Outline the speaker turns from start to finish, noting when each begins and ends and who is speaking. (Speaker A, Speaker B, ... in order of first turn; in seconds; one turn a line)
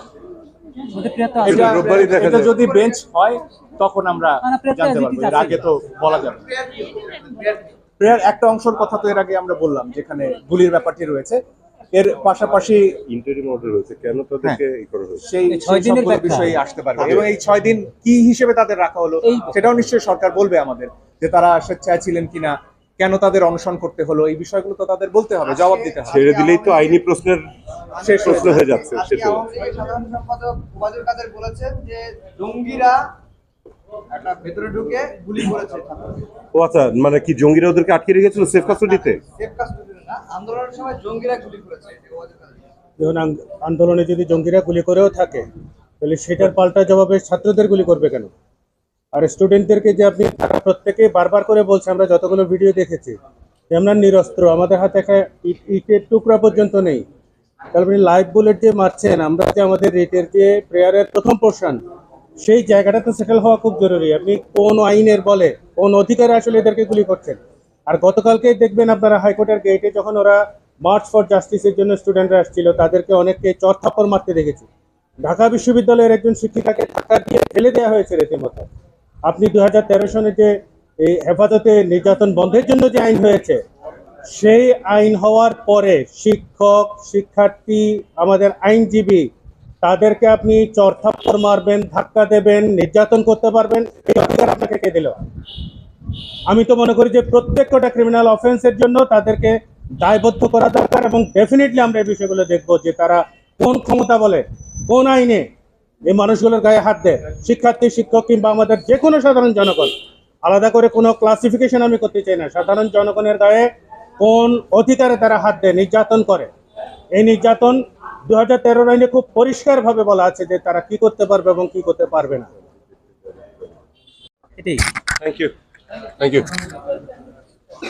Speaker A: 0.9-1.9
Speaker B: 1.4-2.5
Speaker C: 1.5-6.5
Speaker D: 1.7-3.0
Speaker A: 4.4-5.6
Speaker D: 6.1-7.7
Speaker C: 8.0-13.0
Speaker B: 13.0-15.3
Speaker C: 15.2-26.1
Speaker A: 15.5-16.6
Speaker B: 17.0-17.3
Speaker A: 19.2-19.8
Speaker D: 25.4-27.0
Speaker B: 26.1-27.5
Speaker D: 27.9-33.0
Speaker C: 28.0-28.5
Speaker B: 28.2-29.5
Speaker D: 34.1-36.3
Speaker B: 36.5-39.2
Speaker D: 38.7-42.6
Speaker E: 43.0-45.4
Speaker E: 46.0-48.3
Speaker E: 49.1-53.1
Speaker E: 53.7-57.0
Speaker E: 57.7-61.8
Speaker E: 62.4-67.4
Speaker E: 67.9-74.7
Speaker E: 75.2-78.7
Speaker E: 79.3-83.6
Speaker E: 84.3-89.2
Speaker E: 89.8-95.2
Speaker E: 96.5-105.4
Speaker E: 106.1-109.9
Speaker E: 110.5-113.7
Speaker E: 114.2-116.5
Speaker E: 117.2-122.5
Speaker A: 124.6-124.8
Speaker B: 125.2-125.5
Speaker B: 126.2-126.5